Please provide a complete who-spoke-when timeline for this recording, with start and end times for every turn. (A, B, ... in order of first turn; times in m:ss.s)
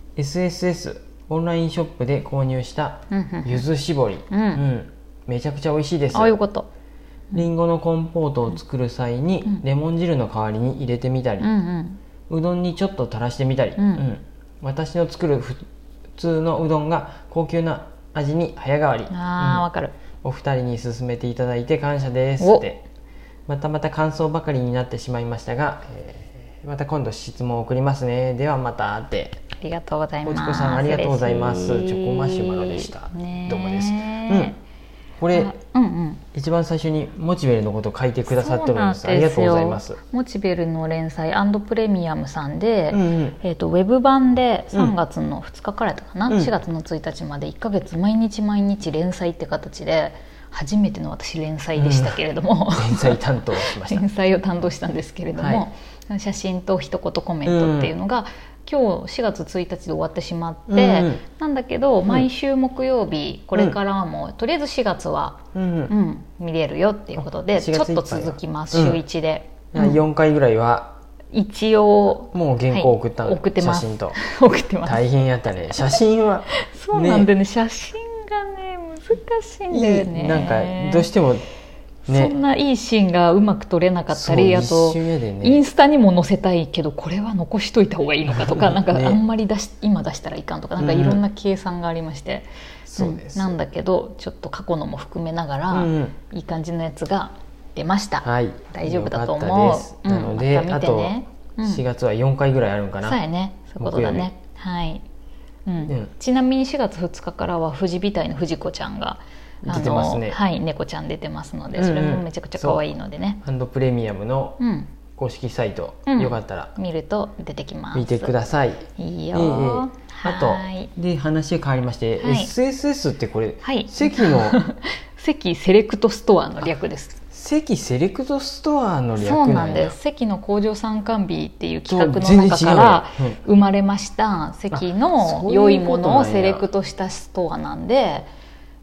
0:00.2-0:06.4 A
0:03.1-0:03.7 B
0:04.3-0:04.6 B
0:06.1-0:06.7 B
0:07.3-0:11.5 A
0:11.4-0:12.0 B
0:12.3-0:15.6 A
0:13.8-0:14.0 B
0:16.2-0:19.7 A
0:19.1-0:19.9 B
0:20.2-0:22.8 A
0:23.5-0:29.4 A
0:29.6-0:34.6 B
0:30.2-0:34.6 A
0:35.2-0:35.6 A
0:35.3-0:36.2 B
0:36.3-0:40.0 A
0:38.3-1:10.0 B
0:42.9-0:43.4 A
0:51.8-0:52.2 A
0:52.8-0:54.1 A
0:55.4-0:55.7 A
0:57.4-0:58.0 A
1:00.7-1:01.2 A
1:05.5-1:05.9 A
1:07.2-1:09.0 A
1:09.7-1:11.0 A
1:11.3-1:15.1 B
1:12.3-1:14.2 A
1:14.8-1:17.3 A
1:15.6-1:21.1 B
1:19.7-1:21.4 A
1:22.1-1:22.4 A
1:22.1-1:41.8 B
1:24.1-1:25.6 A
1:28.3-1:29.2 A
1:30.8-1:31.2 A
1:32.9-1:33.6 A
1:35.7-1:36.2 A
1:38.2-1:43.2 A
1:43.0-1:45.0 B
1:43.8-1:44.3 A
1:45.7-1:53.4 B
1:49.6-1:50.4 A
1:51.8-1:52.8 A
1:53.4-1:54.6 A
1:54.6-1:54.9 B
1:55.2-1:56.7 A
1:56.1-1:58.4 B
1:57.9-2:04.6 A
1:59.0-2:00.9 B
2:02.2-2:02.5 B
2:03.6-2:07.2 B
2:07.3-2:10.0 A
2:09.2-2:18.3 B
2:11.9-2:13.4 A
2:14.7-2:16.7 A